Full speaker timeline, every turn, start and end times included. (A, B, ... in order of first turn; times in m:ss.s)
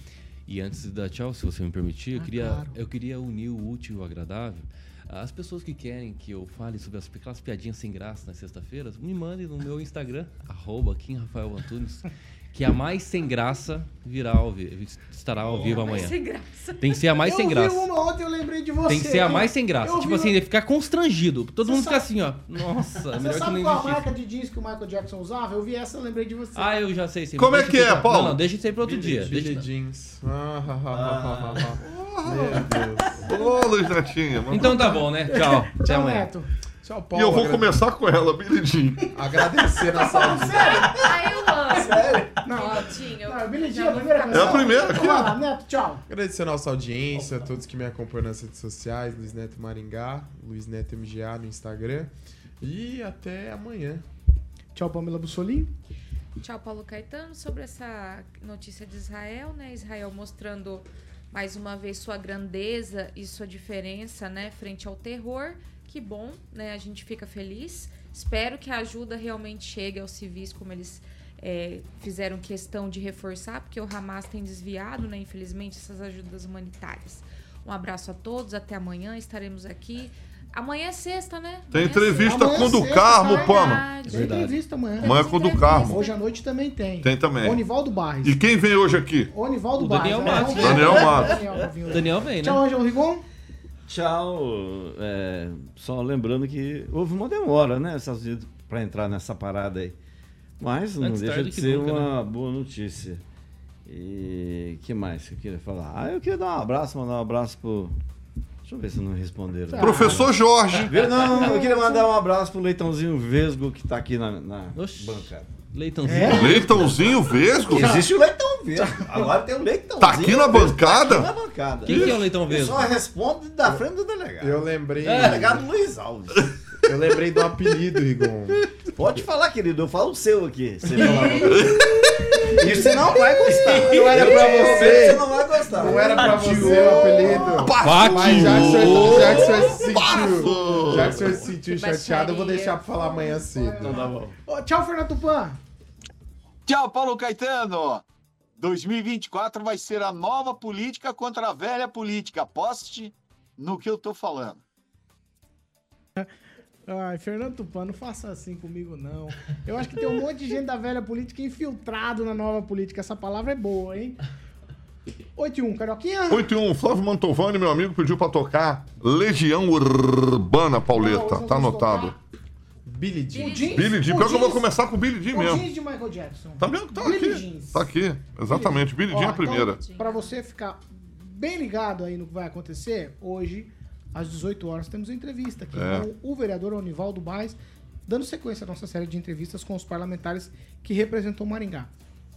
0:00.4-0:16.2 A
0:02.2-0:02.7 B
0:15.4-0:17.0 C
0:16.8-0:17.9 A
0:17.2-0:20.4 B
0:18.9-0:24.1 A
0:21.6-0:22.1 B
0:23.1-0:26.7 B
0:26.5-0:29.7 A
0:27.4-0:28.4 D
0:28.8-0:33.2 E
0:30.9-0:31.7 F
0:31.8-0:32.6 D
0:32.5-0:32.8 F
0:33.2-0:35.0 D
0:34.5-0:36.3 A
0:34.5-0:36.5 B
0:36.8-0:37.7 E
0:37.1-0:39.1 D
0:39.1-0:41.0 E
0:39.8-0:46.0 B
0:40.6-0:45.1 C
0:44.3-0:45.4 D
0:46.1-0:54.0 E
0:54.7-0:55.7 B
0:56.4-1:24.4 C
1:21.7-1:23.8 D
1:22.2-1:28.6 B
1:24.0-1:24.5 A
1:25.0-1:26.0 D
1:25.0-1:26.2 C
1:27.0-1:27.6 D
1:28.2-1:29.3 D
1:29.3-1:33.2 B
1:29.7-1:31.0 A
1:30.4-1:31.4 D
1:30.7-1:32.0 F
1:31.9-1:32.6 A
1:33.9-1:40.0 F
1:40.6-1:43.2 F
1:41.0-1:42.1 A
1:43.8-1:47.9 F
1:48.6-1:50.3 F
1:49.7-1:52.1 B
1:49.8-1:50.9 D
1:50.8-1:55.5 F
1:54.7-1:57.1 A
1:56.0-1:56.5 B
1:56.3-1:57.9 D
1:56.7-2:06.4 F
1:57.8-1:58.1 B
1:58.8-1:59.3 B
2:00.0-2:01.3 D
2:01.8-2:02.9 A
2:01.9-2:02.2 D
2:04.4-2:05.6 E
2:06.8-2:08.6 E
2:08.9-2:11.7 F
2:11.0-2:11.8 B
2:11.4-2:12.4 D
2:12.4-2:14.2 B
2:12.5-2:17.5 F
2:13.8-2:24.0 E
2:14.2-2:14.8 A
2:15.7-2:17.5 B
2:16.5-2:16.7 A
2:17.5-2:21.2 D
2:17.8-2:19.4 A
2:19.1-2:19.6 F
2:19.4-2:20.8 C
2:21.4-2:23.0 C
2:23.0-2:25.6 B
2:23.8-2:24.3 F
2:26.7-2:28.0 G
2:28.6-2:34.6 G
2:36.9-2:44.2 B
2:45.4-2:46.5 B
2:46.3-2:52.1 D
2:50.9-2:52.1 B
2:52.8-2:53.7 E
2:53.3-2:54.1 C
2:53.4-2:54.7 B
2:53.7-2:55.6 D
2:55.3-2:58.0 B
2:56.6-2:59.8 D
2:58.5-3:11.9 B
2:59.4-3:00.3 C
3:05.7-3:06.1 D